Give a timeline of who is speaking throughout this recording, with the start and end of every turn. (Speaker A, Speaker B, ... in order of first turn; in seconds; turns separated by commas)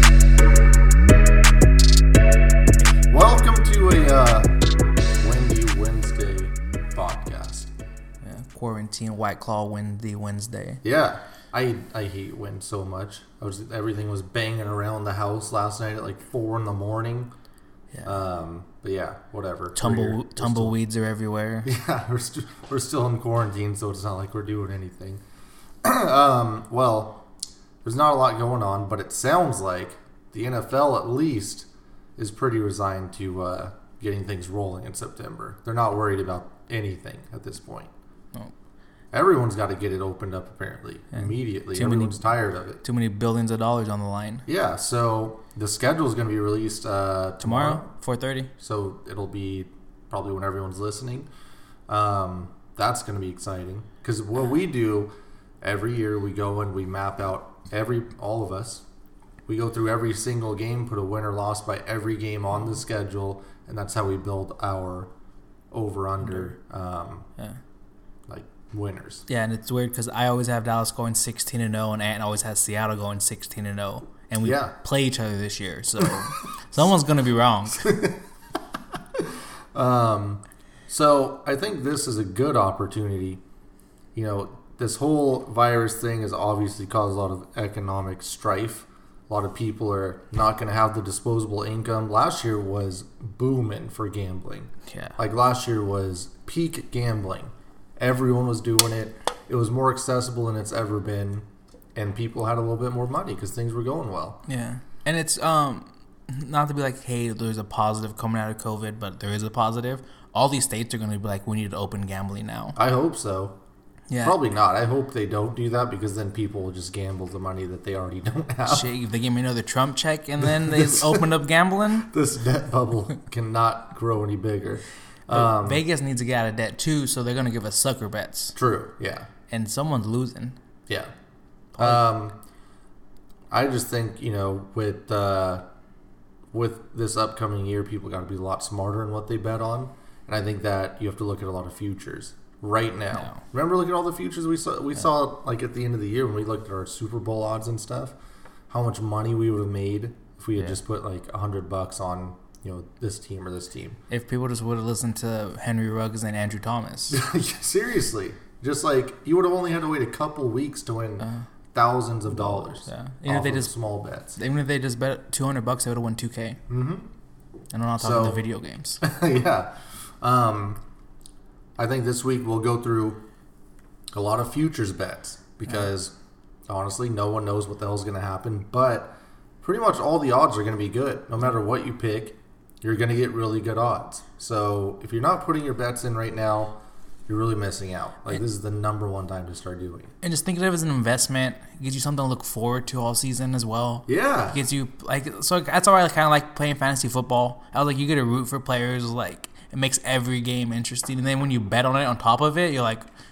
Speaker A: 3.1-4.5, Speaker A: 5.2-7.7, Speaker B: 8.2-10.8, Speaker A: 10.8-17.3, Speaker A: 18.0-20.8, Speaker B: 19.7-21.7, Speaker A: 21.6-25.2, Speaker A: 25.8-27.2, Speaker A: 27.8-37.9, Speaker A: 39.1-42.8, Speaker B: 41.1-44.5, Speaker A: 44.5-47.9, Speaker B: 47.4-48.5, Speaker A: 48.6-51.3, Speaker A: 51.9-55.1, Speaker A: 55.6-58.8, Speaker A: 59.5-65.1, Speaker A: 65.7-67.2, Speaker A: 68.3-69.2, Speaker B: 69.3-78.0, Speaker A: 74.4-74.7, Speaker A: 77.8-78.2, Speaker A: 79.2-83.4, Speaker A: 84.1-104.4, Speaker B: 94.9-95.2, Speaker B: 104.5-112.8, Speaker A: 112.8-113.5, Speaker B: 114.1-114.4, Speaker A: 114.2-118.9, Speaker B: 118.7-122.1, Speaker A: 120.4-121.3, Speaker A: 122.1-125.8, Speaker B: 125.3-128.6, Speaker A: 128.5-129.3, Speaker B: 129.5-130.6, Speaker A: 131.7-132.4, Speaker A: 133.5-135.6, Speaker A: 136.5-148.1, Speaker B: 143.1-143.4, Speaker A: 148.7-154.0, Speaker B: 154.1-157.2, Speaker A: 157.1-164.4, Speaker B: 162.3-163.7, Speaker B: 164.3-166.6, Speaker A: 166.7-167.1, Speaker B: 167.7-169.0, Speaker A: 168.0-168.4, Speaker A: 169.0-170.8, Speaker A: 171.8-173.2, Speaker A: 174.1-176.1, Speaker A: 176.7-190.1, Speaker B: 190.2-203.1, Speaker A: 194.1-194.6